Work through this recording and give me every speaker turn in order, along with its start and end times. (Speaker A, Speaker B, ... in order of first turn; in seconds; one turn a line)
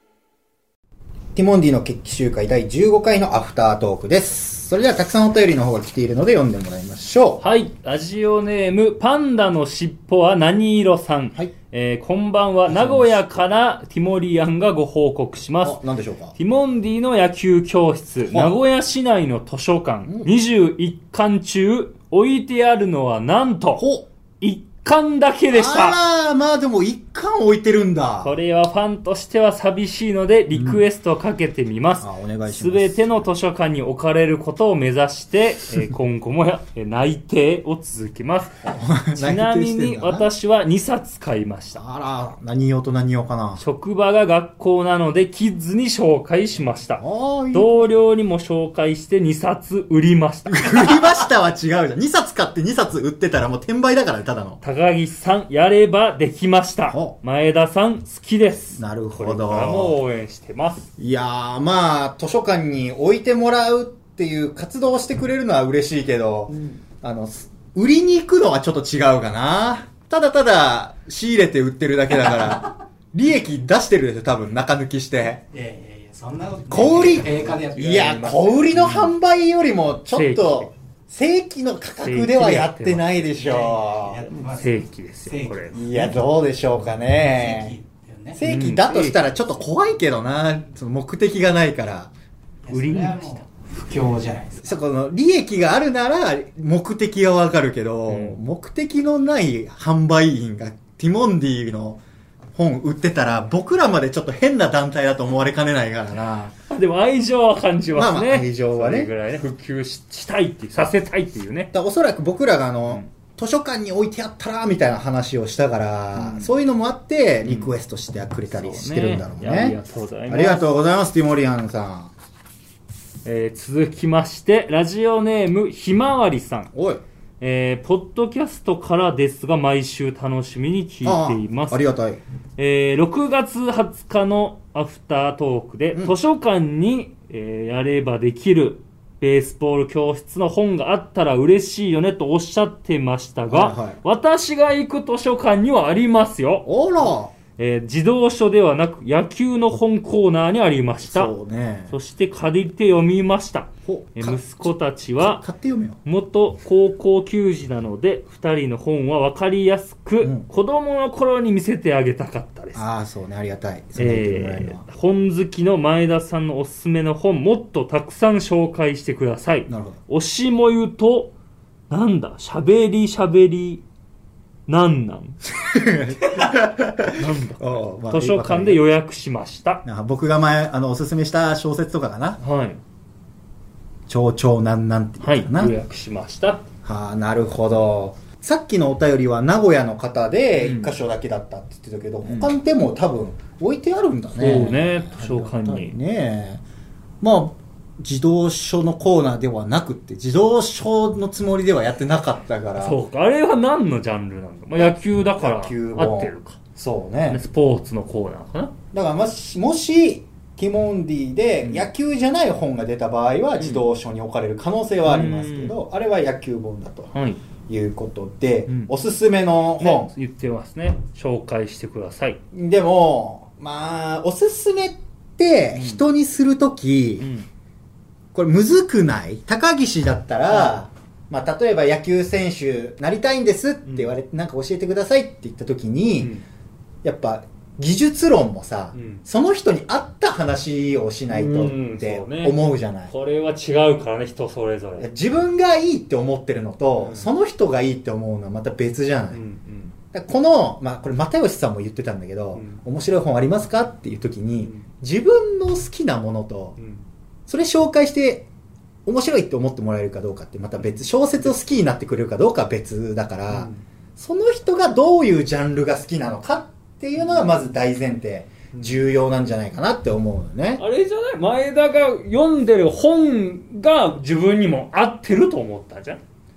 Speaker A: 1.4-7.4
Speaker B: 7.4-15.8
Speaker A: 12.7-13.4
Speaker A: 15.6-16.4
Speaker B: 16.4-23.9
Speaker A: 18.3-18.6
Speaker A: 20.1-20.3
Speaker A: 23.8-24.1
Speaker B: 24.4-26.0
Speaker A: 25.5-28.3
Speaker B: 28.2-41.8
Speaker A: 30.5-30.8
Speaker A: 32.0-33.3
Speaker A: 38.7-40.3
Speaker A: 41.8-43.6
Speaker B: 43.6-51.1
Speaker A: 47.0-47.7
Speaker A: 50.5-54.6
Speaker B: 54.6-60.9
Speaker A: 56.9-57.1
Speaker A: 58.8-60.0
Speaker A: 61.0-75.5
Speaker C: 75.5-78.5
Speaker A: 76.7-84.3
Speaker B: 78.6-79.1
Speaker B: 80.1-80.7
Speaker B: 82.0-83.3
Speaker C: 83.4-86.1
Speaker B: 84.4-85.8
Speaker A: 85.7-87.8
Speaker C: 87.2-88.4
Speaker A: 88.3-92.1
Speaker B: 88.4-89.3
Speaker C: 92.7-94.7
Speaker B: 92.7-93.5
Speaker A: 94.6-102.0
Speaker B: 98.1-98.4
Speaker A: 102.5-106.5
Speaker B: 106.7-111.7
Speaker A: 107.9-109.1
Speaker A: 111.7-119.8
Speaker B: 116.2-116.5
Speaker B: 117.4-117.7
Speaker B: 118.5-120.7
Speaker A: 120.3-122.1
Speaker B: 123.2-126.7
Speaker A: 126.7-127.0
Speaker B: 127.4-131.8
Speaker A: 131.0-132.2
Speaker B: 132.6-151.3
Speaker A: 143.5-144.0
Speaker A: 146.7-147.3
Speaker A: 151.0-151.9
Speaker B: 151.9-155.4
Speaker A: 153.9-154.7
Speaker A: 155.2-156.0
Speaker B: 156.1-162.9
Speaker A: 160.2-160.5
Speaker A: 162.8-164.9
Speaker B: 164.0-171.3
Speaker A: 169.7-170.0
Speaker B: 171.9-173.8
Speaker B: 174.7-175.4
Speaker A: 175.6-178.9
Speaker B: 177.1-179.8
Speaker A: 179.8-182.4
Speaker B: 182.4-182.8
Speaker A: 184.1-185.8
Speaker B: 185.2-186.7
Speaker A: 186.8-196.6
Speaker B: 190.6-190.9
Speaker B: 192.2-192.5
Speaker B: 194.4-196.0
Speaker A: 197.2-203.0
Speaker B: 202.8-206.6
Speaker A: 204.8-207.4
Speaker B: 207.3-208.7
Speaker A: 208.9-217.1
Speaker B: 211.6-211.9
Speaker B: 213.6-213.8
Speaker B: 215.1-215.8
Speaker B: 217.1-217.4
Speaker A: 217.7-220.1
Speaker B: 218.7-218.9
Speaker B: 219.8-222.4
Speaker A: 222.5-227.3
Speaker B: 225.7-226.0
Speaker B: 227.2-227.5
Speaker A: 228.3-236.4
Speaker B: 230.5-230.8
Speaker B: 233.9-234.1
Speaker A: 237.0-243.1
Speaker B: 238.9-239.2
Speaker B: 241.3-245.1
Speaker A: 245.0-249.4
Speaker B: 247.0-247.3
Speaker B: 249.3-249.9
Speaker A: 250.1-256.8
Speaker B: 252.6-252.8
Speaker B: 256.8-257.0
Speaker A: 257.5-258.5
Speaker A: 259.1-270.8
Speaker B: 263.5-263.8
Speaker B: 267.2-267.6
Speaker B: 268.7-269.0
Speaker B: 270.8-276.2